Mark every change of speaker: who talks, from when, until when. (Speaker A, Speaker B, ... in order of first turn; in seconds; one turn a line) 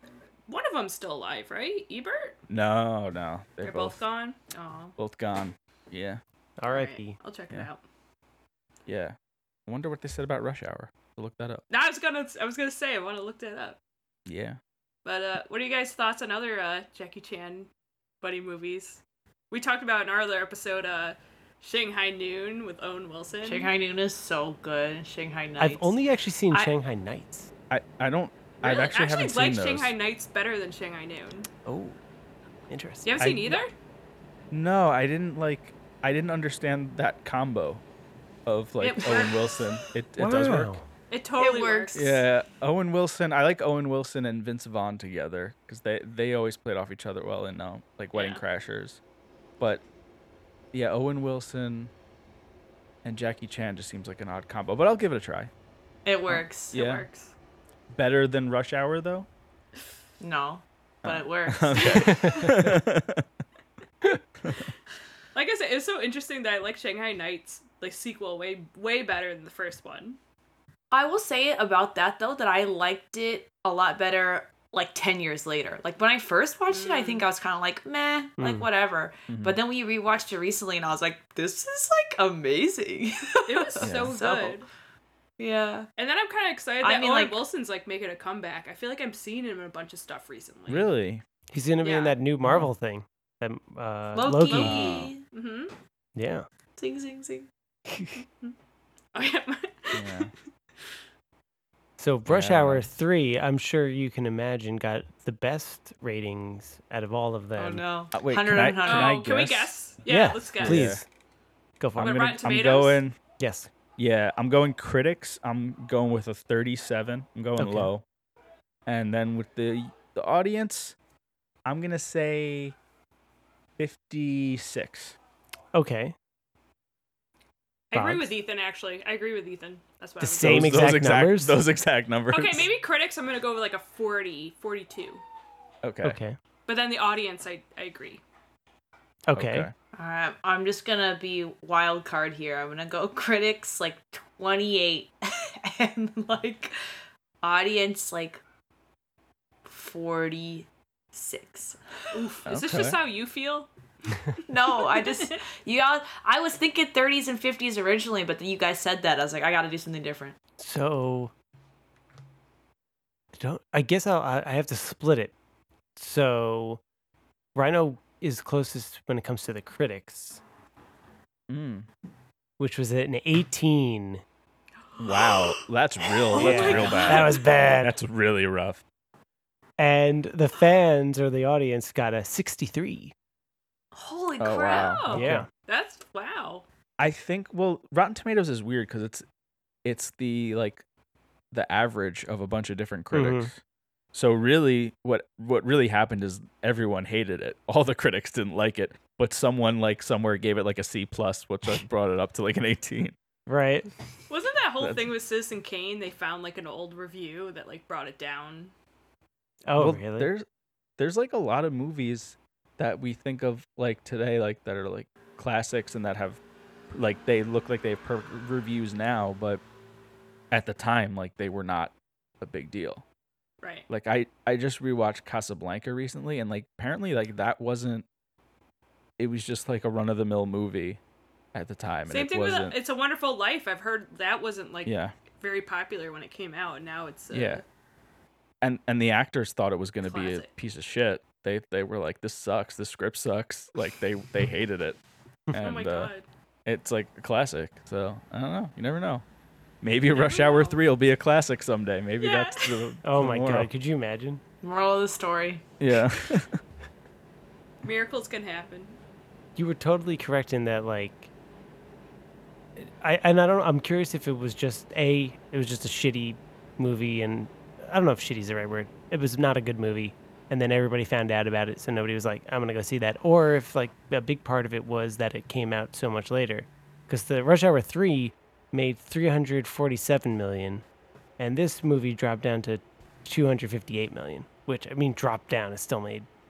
Speaker A: 0.5-2.4
Speaker B: 2.5-4.0
Speaker A: 3.6-4.9
Speaker C: 4.5-4.9
Speaker B: 5.0-6.2
Speaker D: 6.6-7.2
Speaker A: 6.7-7.8
Speaker B: 8.9-11.6
Speaker A: 11.7-13.8
Speaker B: 14.3-14.6
Speaker A: 15.1-17.7
Speaker A: 18.2-23.7
Speaker C: 23.4-25.9
Speaker D: 25.6-27.5
Speaker B: 27.7-29.9
Speaker A: 28.6-31.5
Speaker D: 31.6-32.0
Speaker D: 32.7-33.2
Speaker A: 33.0-33.7
Speaker B: 33.2-33.6
Speaker B: 34.5-37.8
Speaker B: 38.5-40.8
Speaker A: 38.8-39.7
Speaker C: 38.8-39.4
Speaker D: 40.2-40.9
Speaker A: 41.1-41.9
Speaker C: 41.4-42.2
Speaker B: 41.9-49.0
Speaker A: 48.1-48.4
Speaker B: 50.7-51.9
Speaker B: 53.0-55.5
Speaker C: 56.0-56.8
Speaker B: 56.3-57.1
Speaker A: 56.7-57.3
Speaker B: 58.0-59.3
Speaker C: 60.2-62.2
Speaker B: 61.0-63.3
Speaker A: 61.8-62.5
Speaker B: 64.4-64.7
Speaker A: 65.3-70.2
Speaker C: 70.9-84.6
Speaker A: 76.7-77.3
Speaker D: 78.4-78.7
Speaker B: 79.3-79.6
Speaker A: 83.5-84.7
Speaker B: 83.8-84.2
Speaker C: 85.4-85.9
Speaker A: 86.0-90.9
Speaker C: 86.8-87.4
Speaker B: 90.7-91.2
Speaker D: 91.5-95.0
Speaker A: 91.8-92.2
Speaker B: 92.4-92.7
Speaker C: 94.1-95.2
Speaker A: 94.5-95.7
Speaker B: 94.5-95.1
Speaker D: 96.2-96.5
Speaker C: 96.8-97.5
Speaker A: 99.1-100.3
Speaker B: 99.9-100.3
Speaker D: 102.0-107.8
Speaker B: 102.3-102.9
Speaker C: 107.6-109.2
Speaker B: 108.1-109.7
Speaker A: 108.8-110.9
Speaker D: 110.1-111.1
Speaker B: 110.6-111.0
Speaker D: 111.8-112.2
Speaker B: 112.0-113.2
Speaker A: 112.0-113.0
Speaker D: 113.4-113.7
Speaker B: 114.0-118.0
Speaker D: 117.6-117.9
Speaker B: 118.9-121.0
Speaker B: 121.7-122.8
Speaker B: 123.8-125.2
Speaker D: 125.7-126.2
Speaker A: 127.9-130.7
Speaker D: 127.9-128.3
Speaker D: 130.2-131.6
Speaker B: 130.4-132.7
Speaker A: 132.3-135.2
Speaker B: 135.8-136.2
Speaker D: 136.0-136.4
Speaker A: 136.7-138.2
Speaker D: 139.3-139.7
Speaker B: 139.3-139.7
Speaker C: 139.9-146.7
Speaker C: 147.4-148.4
Speaker C: 149.7-152.2
Speaker A: 152.1-153.7
Speaker B: 152.5-153.0
Speaker C: 154.5-160.4
Speaker A: 154.7-155.4
Speaker D: 160.6-161.3
Speaker D: 163.3-165.3
Speaker D: 166.0-166.8
Speaker D: 167.6-170.4
Speaker B: 171.5-171.9
Speaker D: 172.6-174.2
Speaker A: 174.9-177.7
Speaker B: 175.0-178.8
Speaker D: 176.4-177.9
Speaker D: 179.8-183.1
Speaker C: 183.9-185.2
Speaker B: 184.4-185.5
Speaker A: 184.6-186.7
Speaker D: 185.1-185.5
Speaker B: 187.0-189.2
Speaker B: 189.8-190.8
Speaker B: 191.5-193.6
Speaker D: 193.1-193.5
Speaker B: 194.1-203.2
Speaker D: 203.5-203.9
Speaker A: 204.3-208.7
Speaker B: 204.8-205.1
Speaker D: 209.7-210.3
Speaker B: 209.8-210.5
Speaker B: 211.0-216.4
Speaker B: 216.9-219.6
Speaker B: 220.5-223.0
Speaker B: 223.9-228.1
Speaker B: 229.2-231.0
Speaker B: 231.5-232.8
Speaker A: 232.1-237.6
Speaker B: 234.8-235.1
Speaker B: 237.3-237.6
Speaker B: 238.6-245.0
Speaker A: 240.0-240.5
Speaker B: 245.5-246.1
Speaker A: 245.6-246.2
Speaker B: 246.7-249.2
Speaker B: 249.8-253.7
Speaker A: 250.1-250.8
Speaker A: 252.2-252.9
Speaker D: 253.0-254.4
Speaker C: 254.6-255.6
Speaker B: 255.8-256.6
Speaker A: 257.8-259.0
Speaker D: 259.6-261.3
Speaker D: 262.8-280.9
Speaker D: 281.4-286.3